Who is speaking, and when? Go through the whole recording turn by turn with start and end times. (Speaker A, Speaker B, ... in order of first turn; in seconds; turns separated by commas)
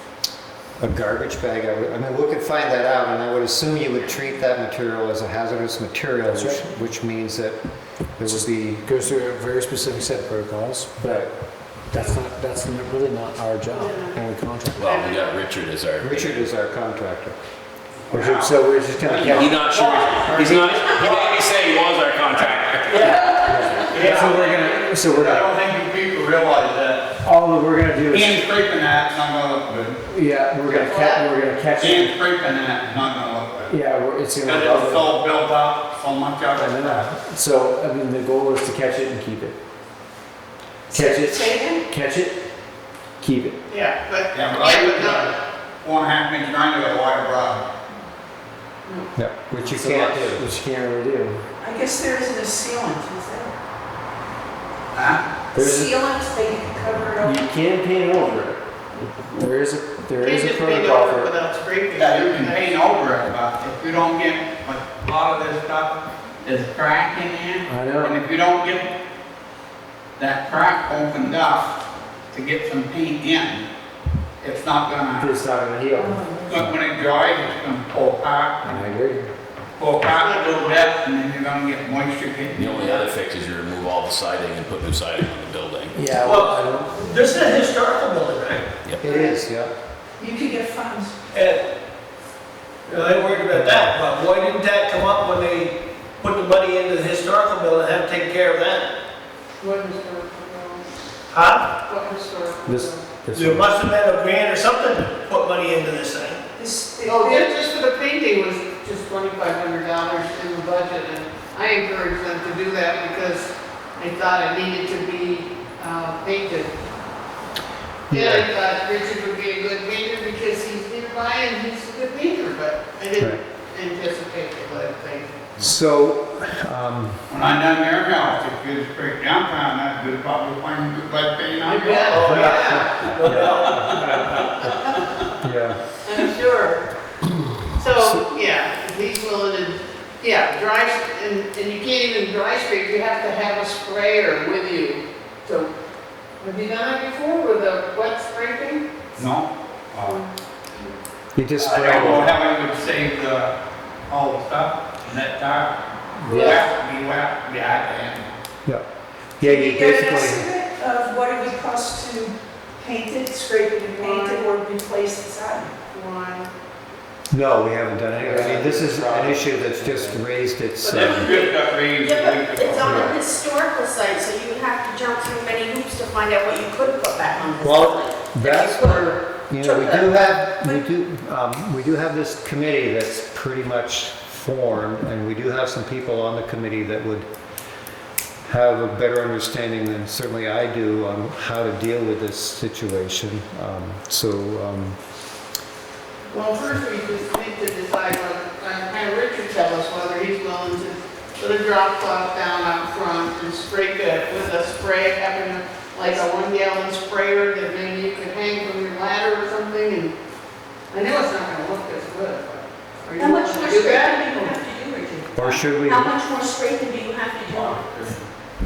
Speaker A: 0.8-7.6, Speaker B: 6.3-6.8, Speaker A: 8.2-8.8, Speaker B: 8.2-14.8, Speaker A: 11.0-11.3, Speaker C: 11.9-12.2, Speaker C: 13.7-14.2, Speaker D: 14.7-16.4, Speaker C: 14.8-15.4, Speaker A: 16.0-17.4, Speaker E: 18.1-21.2, Speaker A: 18.1-21.0, Speaker D: 19.2-24.1, Speaker F: 23.2-23.7, Speaker A: 23.4-25.5, Speaker B: 23.5-23.8, Speaker E: 23.9-27.2, Speaker A: 27.2-28.4, Speaker E: 28.1-30.0, Speaker B: 30.1-31.9, Speaker C: 30.6-31.2, Speaker E: 31.8-33.7, Speaker B: 33.7-35.0, Speaker E: 34.4-37.1, Speaker B: 36.6-39.5, Speaker F: 40.9-41.9, Speaker B: 41.0-41.3, Speaker B: 41.9-42.4, Speaker B: 43.2-43.6, Speaker C: 43.7-45.4, Speaker E: 44.3-47.6, Speaker A: 49.1-50.4, Speaker B: 49.6-51.4, Speaker F: 51.6-53.5, Speaker E: 54.9-55.2, Speaker F: 55.5-57.4, Speaker B: 55.6-55.9, Speaker B: 57.2-58.6, Speaker B: 59.3-61.3, Speaker C: 60.2-62.7, Speaker E: 62.0-68.9, Speaker B: 67.7-68.1, Speaker E: 70.2-73.7, Speaker E: 74.4-75.4, Speaker B: 75.2-76.2, Speaker F: 76.0-76.6, Speaker E: 76.5-78.8, Speaker B: 78.6-79.3, Speaker E: 79.8-83.1, Speaker C: 80.1-80.8, Speaker D: 82.5-86.1, Speaker B: 85.9-87.1, Speaker G: 86.2-88.7, Speaker A: 89.0-89.7, Speaker F: 90.2-91.1, Speaker G: 91.3-91.7, Speaker G: 92.9-98.9, Speaker C: 99.6-100.8, Speaker G: 101.3-101.7, Speaker C: 101.8-103.0, Speaker A: 102.7-103.7, Speaker G: 103.3-106.4, Speaker F: 106.5-107.5, Speaker C: 107.0-116.7, Speaker A: 118.1-118.5, Speaker C: 118.1-125.3, Speaker A: 125.6-127.2, Speaker E: 127.3-132.4, Speaker G: 131.6-133.9, Speaker C: 131.9-132.8, Speaker A: 132.1-134.8, Speaker E: 133.4-135.0, Speaker A: 135.4-135.8, Speaker C: 136.1-136.8, Speaker C: 137.8-145.7, Speaker A: 137.9-138.3, Speaker C: 146.4-148.9, Speaker E: 149.2-150.2, Speaker C: 150.0-150.9, Speaker A: 151.3-152.4, Speaker E: 151.6-153.5, Speaker E: 154.1-158.3, Speaker F: 156.3-156.6, Speaker A: 159.4-160.5, Speaker F: 159.4-165.7, Speaker C: 164.0-164.5, Speaker C: 165.9-166.5, Speaker A: 167.3-171.3, Speaker B: 168.2-170.2, Speaker E: 170.8-173.2, Speaker H: 172.0-180.2, Speaker A: 172.8-173.1, Speaker A: 177.6-187.3, Speaker A: 188.5-195.0, Speaker C: 196.3-210.1, Speaker C: 210.9-214.1, Speaker H: 213.2-218.0, Speaker F: 214.2-215.3, Speaker A: 215.3-216.1